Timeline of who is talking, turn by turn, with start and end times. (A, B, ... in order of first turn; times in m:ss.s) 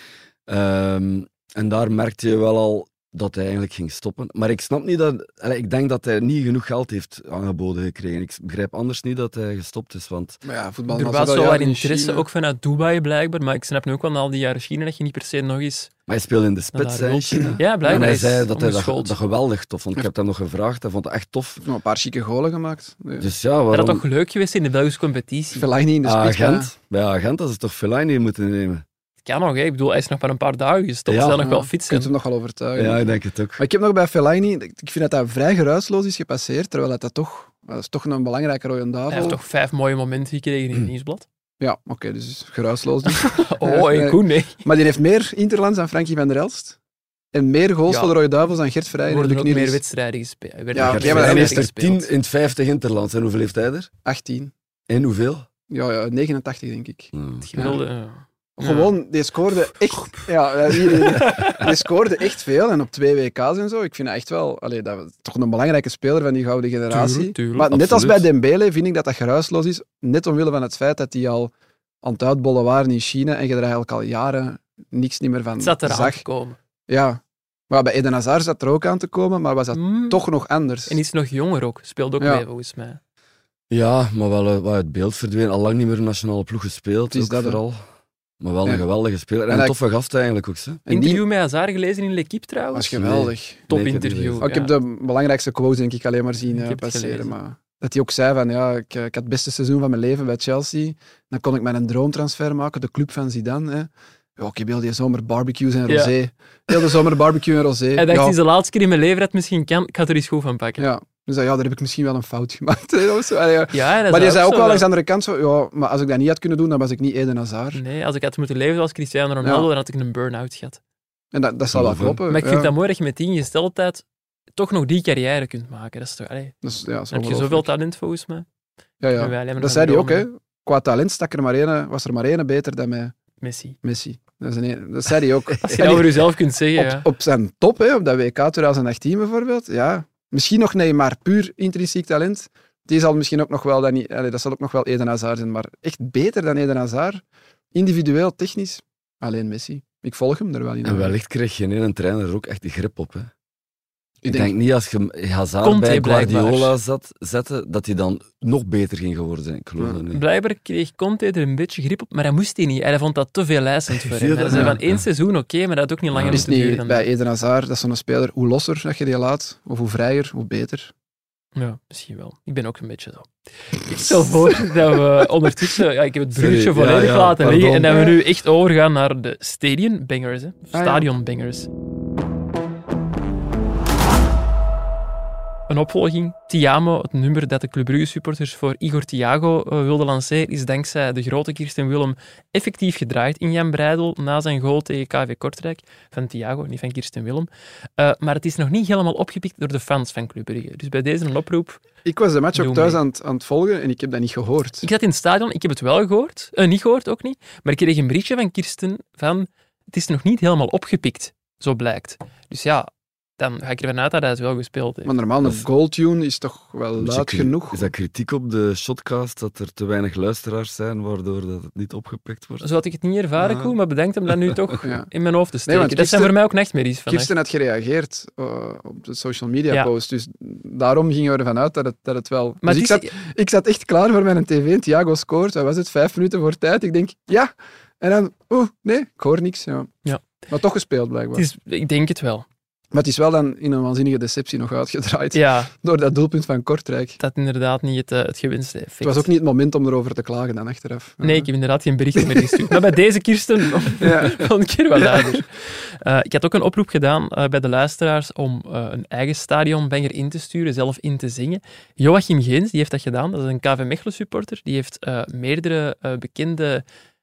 0:00.5-0:10.4 A
0:10.4-0:12.2 B
0:10.9-0:15.9 C
0:16.1-0:21.6 A
0:16.7-0:19.1 C
0:17.8-0:18.1 B
0:21.6-0:23.3 B
0:23.2-0:24.0 A
0:23.7-0:25.7 C
0:25.5-0:26.7 B
0:26.0-0:28.8 A
0:29.2-0:32.1 C
0:31.1-0:31.5 A
0:31.4-0:33.0 B
0:32.7-0:33.6 A
0:33.6-0:39.4 B
0:39.1-0:41.2 C
0:41.6-0:46.8 B
0:43.1-0:44.6 C
0:47.3-0:49.8 B
0:47.9-0:48.1 C
0:49.1-0:52.1 C
0:50.7-0:51.6 B
0:50.8-0:53.9 A
0:54.0-0:54.5 B
0:54.9-0:55.5 A
0:55.7-0:57.8 B
0:57.1-0:57.8 A
0:57.4-0:59.0 C
0:58.6-1:16.2 B
0:59.9-1:01.7 C
1:06.9-1:07.7 C
1:07.7-1:08.3 A
1:15.6-1:16.6 C
1:16.9-1:21.0 B
1:19.7-1:20.2 C
1:20.9-1:23.0 C
1:23.7-1:27.8 A
1:27.1-1:27.6 B
1:28.4-1:30.8 A
1:29.5-1:29.7 B
1:30.8-1:31.2 B
1:30.9-1:33.0 C
1:32.7-1:33.6 B
1:33.0-1:34.4 A
1:33.7-1:34.8 C
1:34.4-1:48.4 B
1:36.4-1:37.3 C
1:45.9-1:46.1 C
1:46.7-1:46.9 C
1:48.0-1:50.8 C
1:50.8-1:57.8 B
1:53.7-1:54.9 C
1:57.7-2:00.8 C
1:59.4-1:59.7 B
2:01.3-2:02.7 B
2:01.7-2:02.2 A
2:02.3-2:04.0 C
2:04.6-2:06.5 C
2:06.6-2:07.7 B
2:07.1-2:08.4 C
2:09.0-2:13.1 B
2:09.1-2:10.3 C
2:13.4-2:13.8 C
2:13.8-2:27.2 B
2:15.6-2:17.1 C
2:27.7-2:31.1 B
2:30.8-2:33.3 A
2:34.2-2:34.5 B
2:34.3-2:40.2 A
2:35.6-2:36.7 C
2:40.1-2:47.1 C
2:44.0-2:45.0 A
2:44.5-2:44.8 B
2:46.1-2:46.5 A
2:46.3-2:50.9 B
2:51.6-3:01.7 C
2:56.3-2:58.0 A
2:57.8-2:58.2 B
3:00.7-3:01.0 B
3:05.7-3:21.8 C
3:22.0-3:24.8 B
3:22.5-3:23.0 C
3:24.8-3:35.1 C
3:35.0-3:37.9 B
3:37.0-3:42.7 A
3:42.6-3:47.3 C
3:43.4-3:43.7 A
3:44.8-3:45.1 B
3:45.6-3:46.4 B
3:47.1-3:59.9 B
3:52.6-3:53.1 C
4:00.0-4:00.3 C
4:00.5-4:01.4 B
4:01.3-4:02.4 C
4:02.9-4:07.2 B
4:05.3-4:05.7 C
4:07.2-4:09.3 C
4:09.0-4:11.5 B
4:11.2-4:26.8 C
4:12.1-4:12.8 B
4:14.0-4:15.4 B